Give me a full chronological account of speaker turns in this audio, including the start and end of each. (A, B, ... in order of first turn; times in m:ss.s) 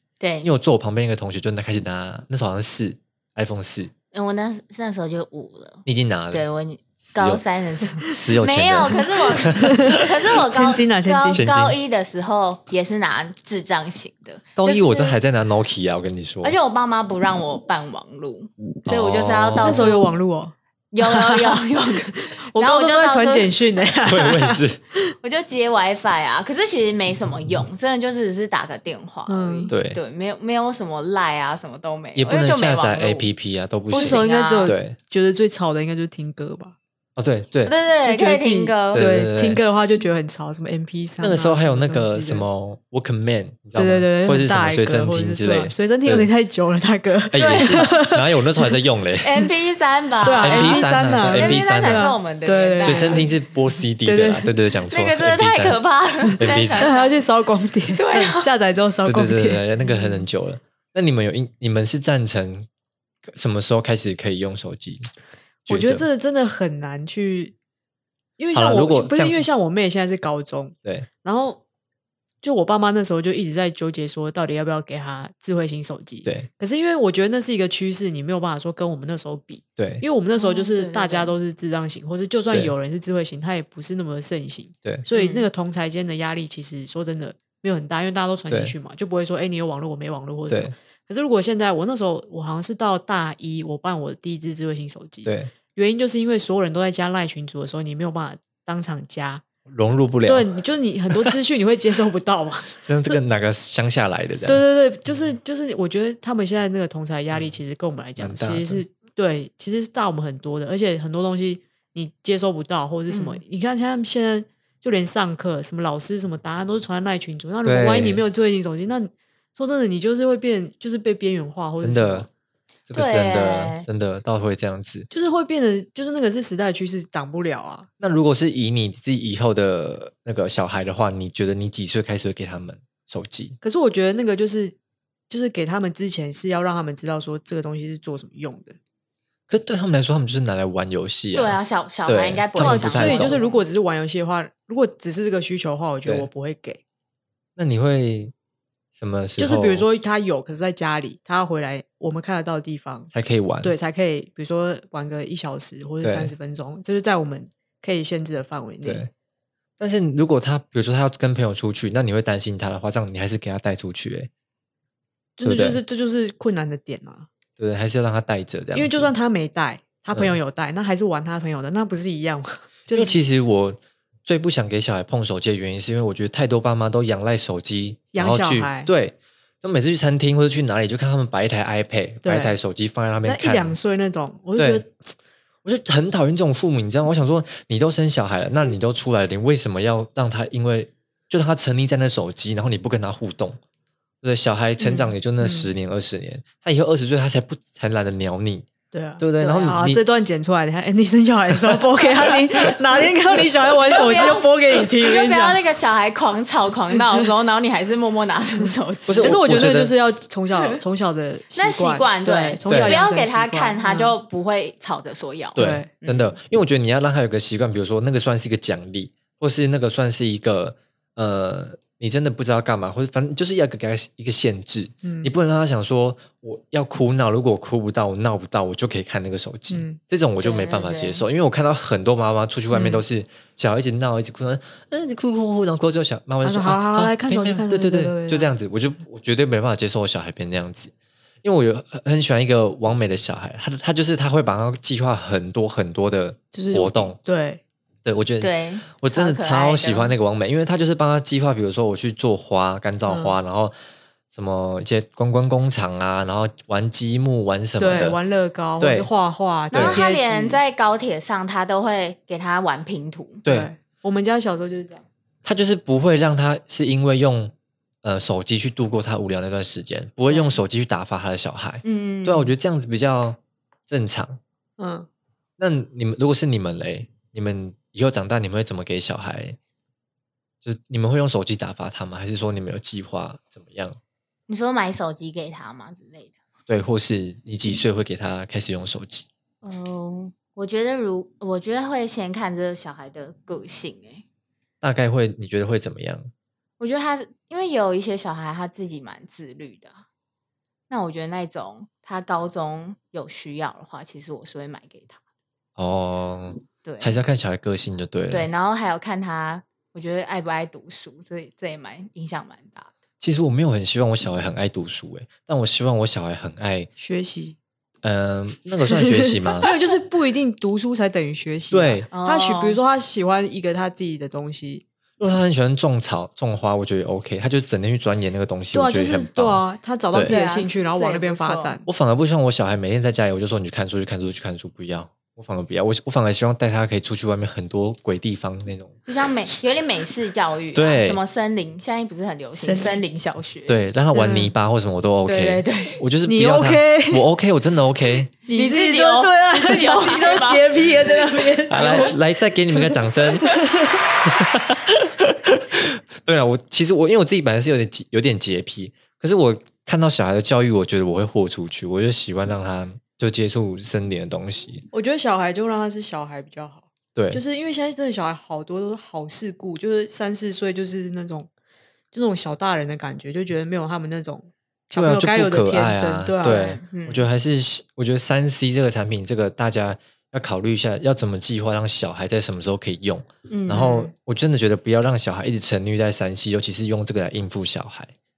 0:00.2-0:00.5 A
0:00.4-0:03.9 B
0:04.1-0:15.2 A
0:05.8-0:06.4 B
0:07.0-0:07.4 B
0:08.1-0:10.0 B
0:09.4-0:11.4 C
0:11.3-0:11.8 B
0:14.6-0:16.6 B
0:16.4-0:20.1 A
0:18.8-0:20.0 B
0:19.6-0:25.1 C
0:20.9-0:23.6 A
0:24.0-0:24.8 B
0:25.2-0:33.3 A
0:29.3-0:29.7 C
0:29.7-0:30.0 B
0:32.1-0:35.0 B
0:33.9-0:36.8 C
0:33.9-0:34.7 A
0:37.2-0:37.7 B
0:37.6-0:39.1 A
0:38.0-0:42.4 C
0:38.9-0:39.6 B
0:41.2-0:46.3 B
0:43.8-0:48.7 C
0:47.3-0:49.5 B
0:47.3-0:47.9 A
0:49.2-0:53.3 A
0:50.2-0:53.2 C
0:50.3-0:52.1 B
0:52.8-0:55.8 B
0:54.0-0:54.5 C
0:54.9-0:57.2 A
0:56.2-1:00.2 C
0:56.4-0:56.9 B
0:57.9-0:58.5 A
0:58.1-0:58.4 B
0:59.0-1:02.7 B
1:03.2-1:05.1 B
1:05.7-1:06.0 B
1:05.7-1:07.5 C
1:08.4-1:11.6 C
1:08.5-1:09.4 B
1:12.4-1:39.4 C
1:19.8-1:20.0 B
1:20.3-1:21.3 A
1:25.1-1:25.5 A
1:28.5-1:28.7 B
1:30.5-1:30.7 B
1:35.2-1:35.5 B
1:39.7-1:40.5 B
1:40.2-1:42.8 C
1:42.8-1:44.6 B
1:44.4-2:02.3 C
1:48.2-1:48.8 B
1:53.1-1:53.4 A
1:57.6-1:58.2 B
2:01.8-2:02.3 B
2:02.9-2:05.1 B
2:02.9-2:03.8 A
2:05.1-2:07.9 C
2:08.0-2:13.6 B
2:13.6-2:14.7 C
2:15.3-2:18.8 C
2:19.5-2:23.4 B
2:21.3-2:23.6 A
2:22.6-2:26.8 C
2:27.6-2:28.3 B
2:28.9-2:29.8 B
2:29.4-2:33.1 C
2:33.1-2:33.7 B
2:33.6-2:39.0 C
2:36.0-2:36.3 B
2:38.8-2:39.1 B
2:39.8-2:44.3 B
2:45.4-2:47.3 C
2:45.4-2:45.8 B
2:47.6-2:49.1 B
2:48.7-2:53.2 C
2:52.9-3:03.8 B
2:58.1-2:58.9 C
3:02.2-3:02.6 C
3:03.2-3:05.1 C
3:04.6-3:04.8 B
3:05.6-3:13.6 B
3:14.2-3:18.7 B
3:14.8-3:15.7 C
3:18.9-3:25.6 C
3:19.2-3:20.0 B
3:19.4-3:19.8 A
3:21.7-3:22.4 B
3:23.8-3:29.4 A
3:29.1-3:29.9 B
3:29.2-3:34.1 C
3:31.5-3:35.6 A
3:32.7-3:33.0 B
3:35.5-4:07.2 B
3:35.6-3:36.3 C
3:45.0-3:45.3 C
3:49.7-3:50.0 C
3:50.4-3:51.2 A
3:52.7-3:53.0 C
3:56.4-3:58.5 C
4:06.5-4:07.6 C
4:08.0-4:13.7 B
4:08.4-4:10.2 A
4:13.1-4:13.4 C
4:14.3-4:18.2 B
4:17.8-4:20.6 C
4:18.8-4:19.1 B
4:19.7-4:20.0 B
4:19.7-4:23.4 A
4:23.4-4:23.7 B
4:23.4-4:25.0 C
4:25.4-4:33.4 B
4:31.8-4:32.5 A
4:33.9-4:34.4 B
4:34.8-4:35.1 C
4:35.6-4:39.6 B
4:40.6-4:44.0 B
4:44.5-4:46.3 A
4:46.7-4:49.3 B
4:49.6-4:54.2 A
4:54.8-4:56.3 B
4:56.8-5:00.0 A
5:00.9-5:05.2 A
5:05.8-5:08.5 B
5:06.8-5:07.2 A
5:08.3-5:12.9 A
5:13.2-5:16.9 B
5:17.0-5:17.6 C
5:18.0-5:19.7 B
5:19.6-5:24.8 C
5:21.7-5:22.1 B
5:22.1-5:22.8 A
5:25.2-5:30.4 B
5:28.7-5:31.8 C
5:30.2-5:31.8 A
5:31.8-5:38.9 B
5:39.1-5:43.8 A
5:40.7-5:41.2 B
5:42.6-5:43.0 C
5:43.7-5:48.3 B
5:44.1-5:44.5 C
5:45.2-5:46.0 A
5:46.2-5:47.2 C
5:48.5-5:52.2 C
5:48.5-5:51.1 A
5:51.7-5:53.6 B
5:52.7-5:54.0 C
5:54.2-6:04.8 B
6:04.9-6:11.5 C
6:07.1-6:07.4 B
6:12.1-6:16.6 C
6:14.9-6:28.1 B
6:16.4-6:17.3 A
6:23.5-6:24.1 A
6:23.7-6:24.1 C